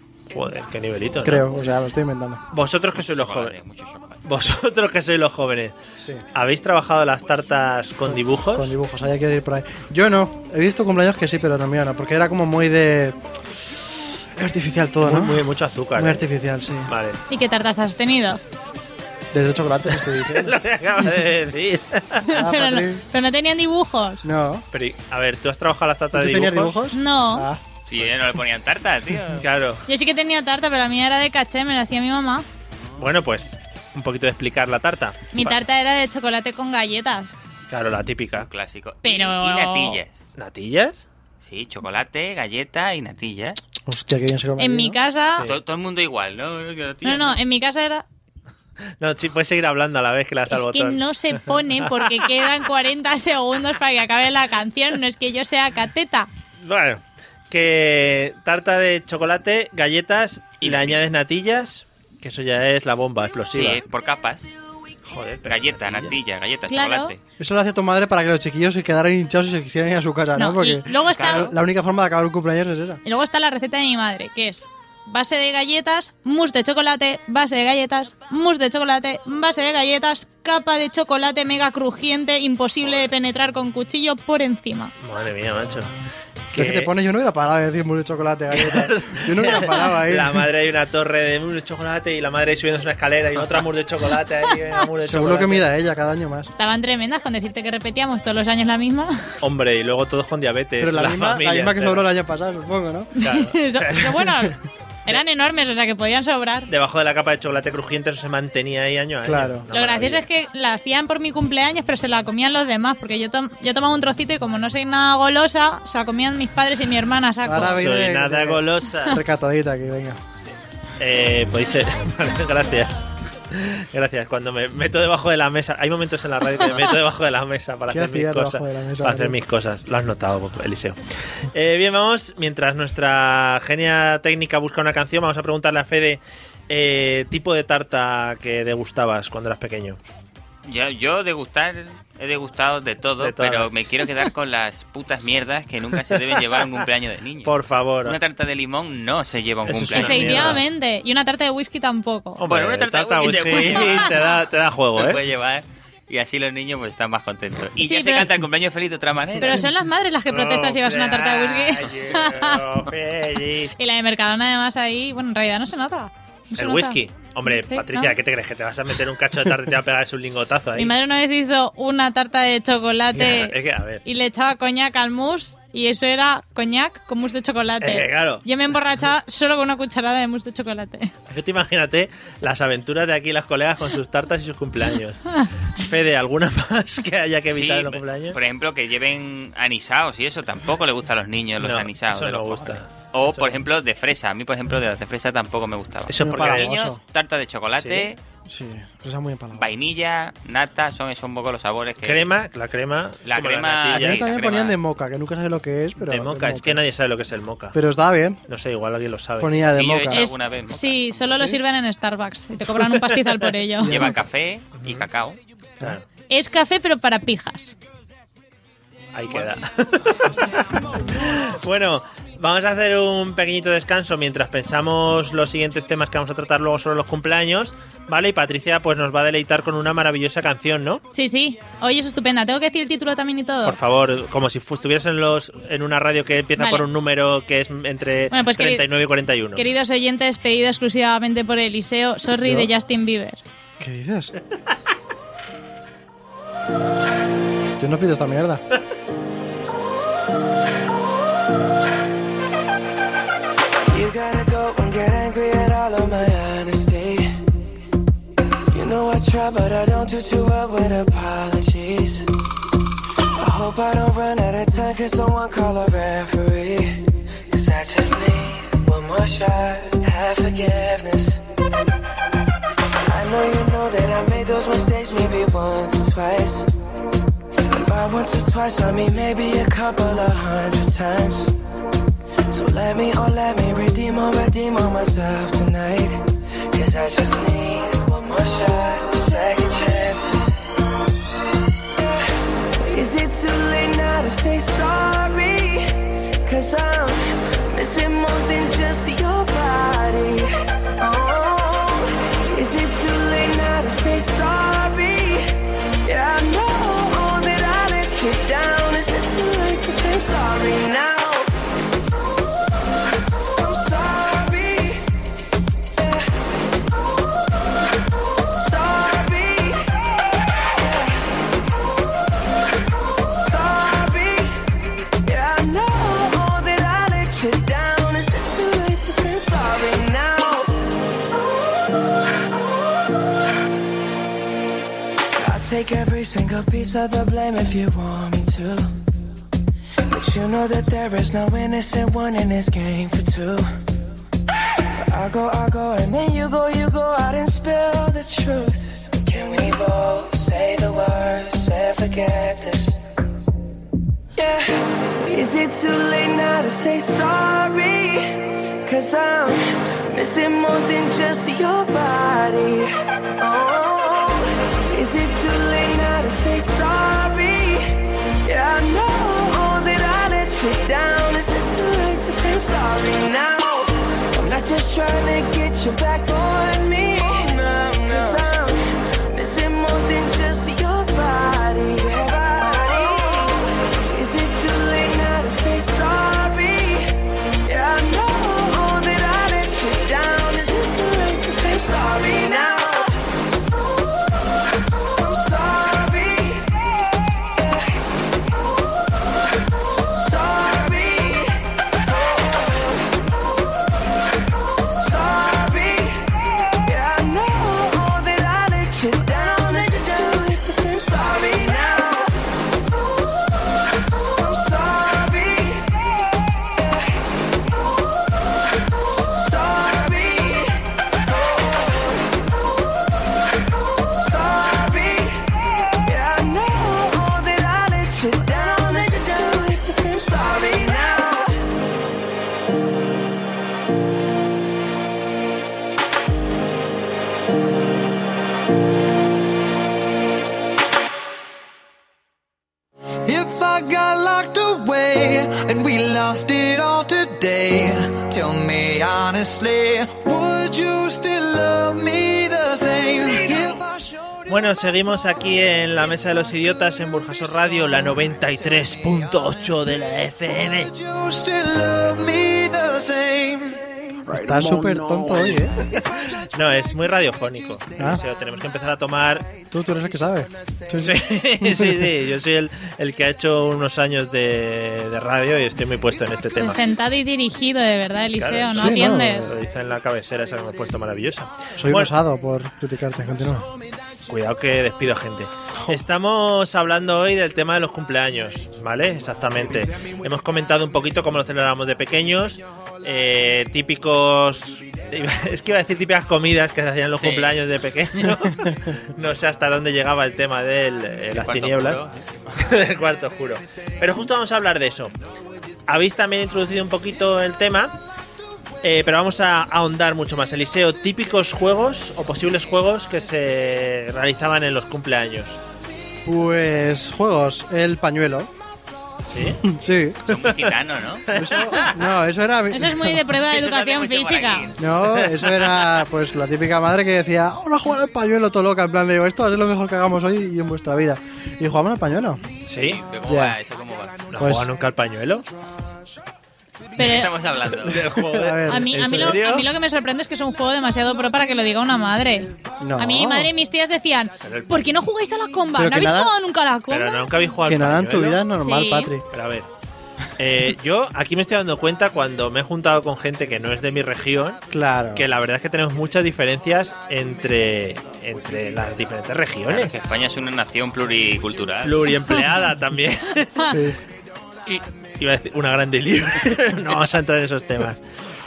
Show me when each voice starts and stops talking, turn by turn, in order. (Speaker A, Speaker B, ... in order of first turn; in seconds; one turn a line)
Speaker A: 0.3-1.5
Speaker B: 1.2-2.4
Speaker A: 2.5-3.5
Speaker C: 2.9-4.2
Speaker A: 4.2-5.7
Speaker B: 6.0-6.2
Speaker A: 6.3-8.7
Speaker B: 8.1-13.7
Speaker B: 14.2-16.9
Speaker A: 15.0-16.2
Speaker A: 16.9-17.2
Speaker D: 17.3-18.4
Speaker B: 19.3-20.6
Speaker A: 20.2-22.3
Speaker D: 22.3-24.2
Speaker B: 22.3-23.0
Speaker B: 24.2-24.6
Speaker A: 24.7-26.8
Speaker B: 26.1-27.6
Speaker D: 26.9-27.5
Speaker C: 27.9-29.4
Speaker A: 29.3-29.8
Speaker D: 29.9-32.5
Speaker A: 33.0-35.6
Speaker D: 35.3-37.3
Speaker A: 37.7-38.5
Speaker C: 38.4-40.2
Speaker D: 39.0-40.0
Speaker A: 40.4-41.0
Speaker C: 41.4-43.6
Speaker B: 43.9-45.0
Speaker D: 44.6-45.5
Speaker C: 45.4-47.4
Speaker D: 47.0-48.0
Speaker A: 49.0-52.5
Speaker D: 50.5-56.3
Speaker A: 56.6-63.8
Speaker C: 60.6-61.0
Speaker C: 63.5-64.5
Speaker A: 65.1-66.2
Speaker C: 65.5-67.2
Speaker D: 66.7-67.1
Speaker B: 67.4-73.0
Speaker D: 70.3-71.5
Speaker C: 71.1-71.5
Speaker D: 73.0-84.9
Speaker A: 82.8-83.1
Speaker A: 85.0-85.9
Speaker A: 86.5-86.9
Speaker B: 86.5-90.5
Speaker A: 88.5-95.7
Speaker B: 95.0-96.5
Speaker D: 96.5-99.2
Speaker A: 99.4-102.1
Speaker B: 100.8-103.2
Speaker D: 103.2-106.7
Speaker A: 103.2-104.5
Speaker A: 106.7-110.2
Speaker B: 109.2-109.7
Speaker D: 109.7-117.9
Speaker B: 117.4-120.2
Speaker A: 117.5-119.2
Speaker A: 121.0-131.0
Speaker B: 127.9-129.4
Speaker A: 131.5-140.0
Speaker C: 140.6-150.6
Speaker A: 143.2-143.7
Speaker A: 146.1-146.8
Speaker A: 147.4-148.2
Speaker A: 149.7-150.6
Speaker D: 149.9-152.4
Speaker A: 152.4-155.2
Speaker C: 152.5-154.3
Speaker D: 153.2-154.2
Speaker C: 154.9-159.7
Speaker D: 157.8-158.3
Speaker D: 159.4-162.8
Speaker A: 160.3-163.7
Speaker D: 163.8-167.0
Speaker A: 166.6-170.9
Speaker D: 167.5-168.1
Speaker D: 170.7-181.1
Speaker A: 173.1-174.0
Speaker A: 177.8-178.4
Speaker A: 181.3-185.2
Speaker A: 185.8-188.4
Speaker C: 187.5-198.2
Speaker A: 191.6-193.5
Speaker A: 196.1-196.7
Speaker B: 196.2-197.0
Speaker A: 197.8-198.1
Speaker B: 198.4-199.7
Speaker C: 199.6-202.3
Speaker A: 202.0-204.3
Speaker C: 203.2-204.8
Speaker B: 203.9-206.8
Speaker A: 206.0-207.8
Speaker B: 207.7-208.4
Speaker A: 208.5-209.7
Speaker B: 209.4-210.3
Speaker C: 209.7-211.5
Speaker D: 210.1-214.2
Speaker A: 212.7-214.2
Speaker C: 213.8-215.4
Speaker A: 214.8-215.1
Speaker A: 215.8-216.0
Speaker D: 216.3-217.7
Speaker A: 219.1-231.0
Speaker D: 231.1-233.8
Speaker A: 233.6-239.6
Speaker D: 236.6-236.8
Speaker D: 238.3-238.8
Speaker D: 239.6-243.4
Speaker B: 242.4-242.7
Speaker B: 243.8-244.3
Speaker B: 247.8-248.6
Speaker E: 253.8-257.4
Speaker E: 258.7-262.3
Speaker E: 263.4-271.4
Speaker E: 273.0-276.7
Speaker E: 277.7-281.5
Speaker E: 282.5-290.5
Speaker E: 291.9-292.3
Speaker E: 292.8-305.5
Speaker E: 306.0-311.5
Speaker E: 313.3-315.0
Speaker E: 315.9-316.3
Speaker E: 318.4-321.3
Speaker E: 323.2-324.7
Speaker E: 325.2-330.7
Speaker E: 335.3-338.9
Speaker E: 340.1-343.7
Speaker E: 344.9-353.0
Speaker E: 354.3-387.1
Speaker E: 387.6-393.1
Speaker E: 394.9-397.9
Speaker E: 399.9-403.1
Speaker E: 404.9-412.3
Speaker E: 414.1-417.1
Speaker E: 419.1-422.2
Speaker E: 424.1-431.6
Speaker F: 443.2-454.4
Speaker A: 454.5-460.9
Speaker F: 460.9-466.0
Speaker B: 464.3-465.9
Speaker A: 466.5-469.5
Speaker B: 469.7-472.1
Speaker A: 471.0-476.8
Speaker D: 476.6-479.5
Speaker A: 478.4-482.1
Speaker B: 478.7-479.5
Speaker B: 481.8-483.7
Speaker A: 484.3-502.0
Speaker C: 497.1-497.6
Speaker C: 501.3-502.1
Speaker A: 502.5-505.1
Speaker A: 505.9-507.9
Speaker A: 508.8-515.6
Speaker B: 516.2-518.5
Speaker A: 519.3-519.6
Speaker B: 519.6-520.2
Speaker A: 520.3-520.8
Speaker C: 520.3-521.3
Speaker A: 521.3-522.0
Speaker B: 521.3-523.2
Speaker D: 522.7-524.7
Speaker C: 523.3-524.9
Speaker B: 524.8-532.4
Speaker A: 525.0-526.0
Speaker A: 532.7-533.0
Speaker C: 532.7-534.3
Speaker B: 533.2-533.6
Speaker A: 534.3-535.5
Speaker B: 534.4-534.7
Speaker D: 537.0-537.4
Speaker C: 537.0-538.1
Speaker A: 537.8-539.7
Speaker B: 538.1-539.4
Speaker D: 538.7-547.2
Speaker B: 542.8-543.5
Speaker A: 544.4-544.9
Speaker B: 545.7-546.3
Speaker A: 546.9-548.4
Speaker B: 547.6-549.2
Speaker D: 548.6-549.1
Speaker A: 549.3-549.7
Speaker A: 550.4-554.6
Speaker B: 554.7-555.3
Speaker A: 555.1-559.9
Speaker C: 559.7-562.4
Speaker A: 561.8-563.8
Speaker B: 563.6-564.0
Speaker A: 564.6-568.0